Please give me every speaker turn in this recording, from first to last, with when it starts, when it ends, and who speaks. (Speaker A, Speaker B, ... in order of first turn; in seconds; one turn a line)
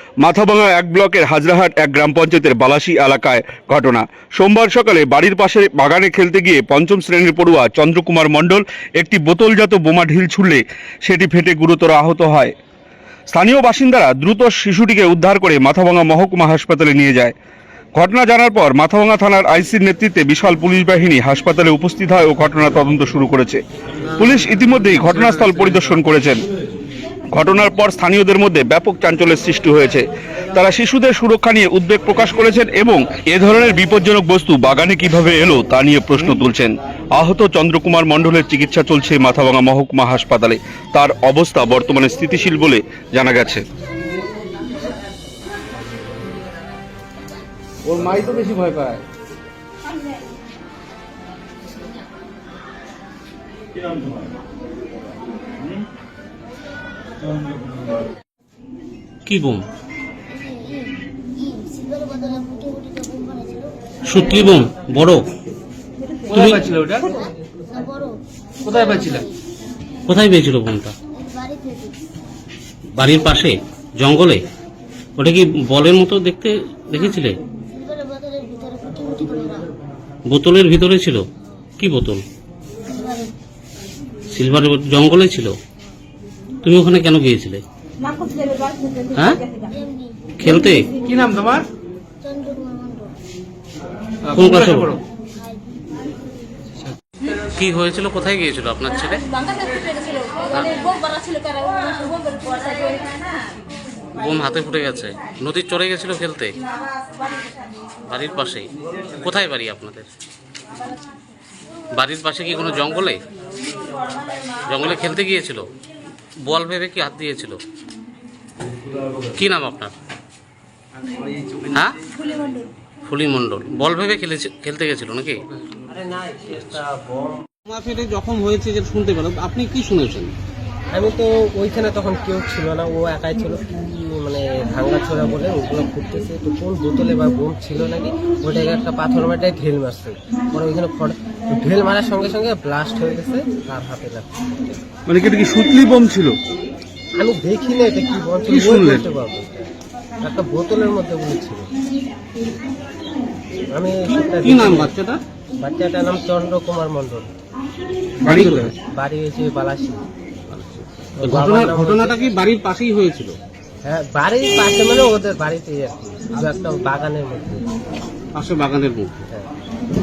Speaker A: 0.2-12.5
Speaker A: 13.3-17.3
Speaker A: 17.9-23.6
Speaker A: 24.1-26.4
Speaker A: 27.3-43.6
Speaker B: 47.8-49.0
Speaker C: 59.2-59.6
Speaker D: 60.5-60.9
Speaker D: 61.4-63.6
Speaker C: 64.0-65.2
Speaker B: 66.3-67.2
Speaker C: 66.3-66.7
Speaker D: 67.8-68.1
Speaker B: 68.9-69.2
Speaker C: 70.1-71.0
Speaker D: 71.3-71.8
Speaker C: 73.0-74.4
Speaker C: 75.2-77.4
Speaker D: 77.8-79.7
Speaker C: 80.3-81.3
Speaker C: 81.8-82.2
Speaker D: 83.0-83.3
Speaker C: 84.3-85.6
Speaker C: 86.6-87.6
Speaker D: 88.1-90.1
Speaker C: 89.1-89.5
Speaker C: 90.4-91.0
Speaker B: 91.0-91.7
Speaker D: 92.3-93.0
Speaker B: 94.3-95.0
Speaker C: 94.3-95.0
Speaker C: 97.2-101.7
Speaker D: 101.5-103.0
Speaker C: 104.2-106.5
Speaker C: 108.0-110.1
Speaker C: 111.9-113.2
Speaker C: 114.7-115.7
Speaker C: 116.4-117.6
Speaker C: 119.3-119.9
Speaker C: 121.7-122.0
Speaker C: 123.0-125.4
Speaker E: 125.8-127.4
Speaker C: 127.7-130.3
Speaker E: 130.9-144.3
Speaker C: 145.1-146.2
Speaker A: 145.3-146.2
Speaker E: 147.2-149.7
Speaker C: 148.5-148.9
Speaker E: 150.2-151.7
Speaker E: 153.7-154.9
Speaker C: 154.0-155.2
Speaker E: 155.6-157.3
Speaker C: 158.2-158.7
Speaker A: 158.2-158.7
Speaker E: 158.8-160.1
Speaker C: 160.5-163.3
Speaker E: 161.2-162.2
Speaker E: 163.8-167.7
Speaker C: 168.3-169.3